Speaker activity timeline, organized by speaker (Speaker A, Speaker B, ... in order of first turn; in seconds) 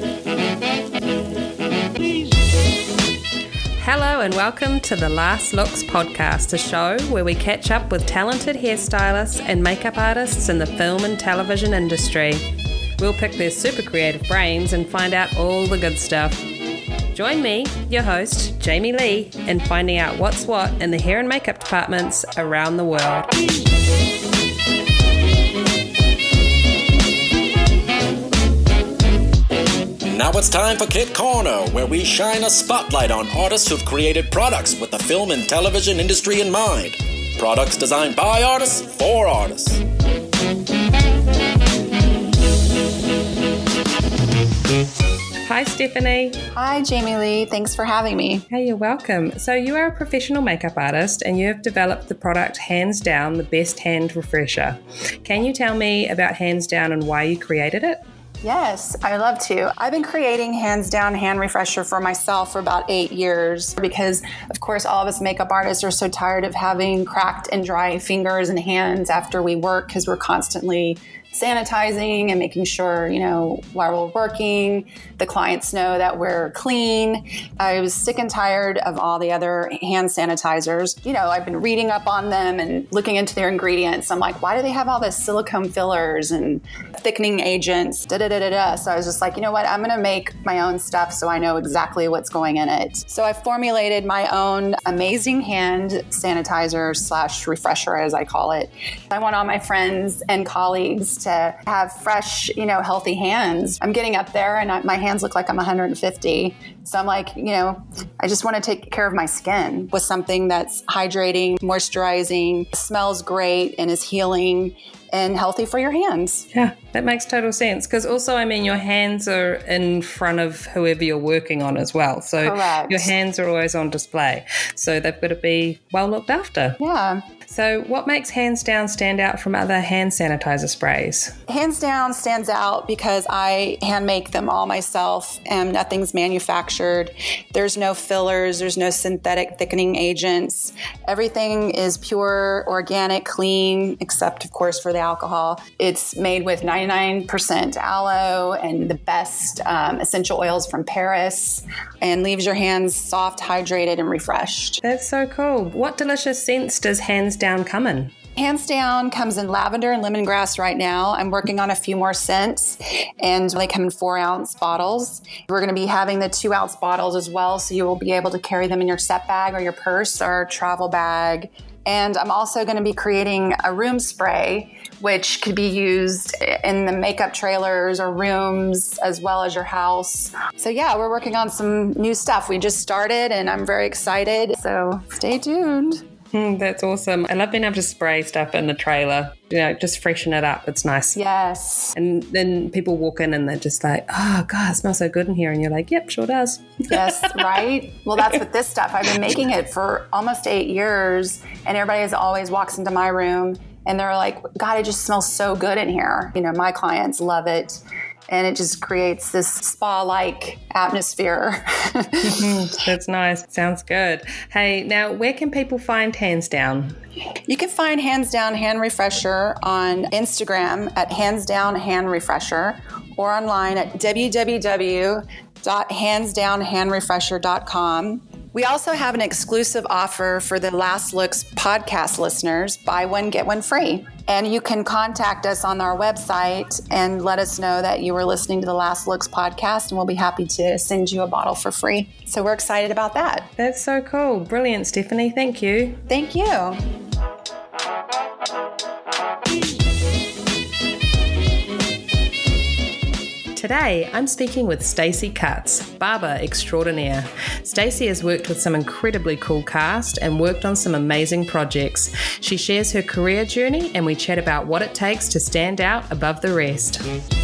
Speaker A: 3.8-12.4, 13.0-16.4, 17.1-23.3, 45.4-46.4, 48.5-58.0, 116.5-126.8, 127.5-131.3, 154.8-158.1, 186.3-191.2, 191.9-197.4, 212.2-217.0, 243.6-246.0, 253.6-267.0
Speaker B: 30.1-39.8
Speaker C: 46.5-48.5, 58.4-116.5, 122.4-123.1, 126.8-127.2, 131.5-154.8, 158.4-186.0, 191.2-191.9, 196.9-212.6, 217.5-243.5, 246.1-246.8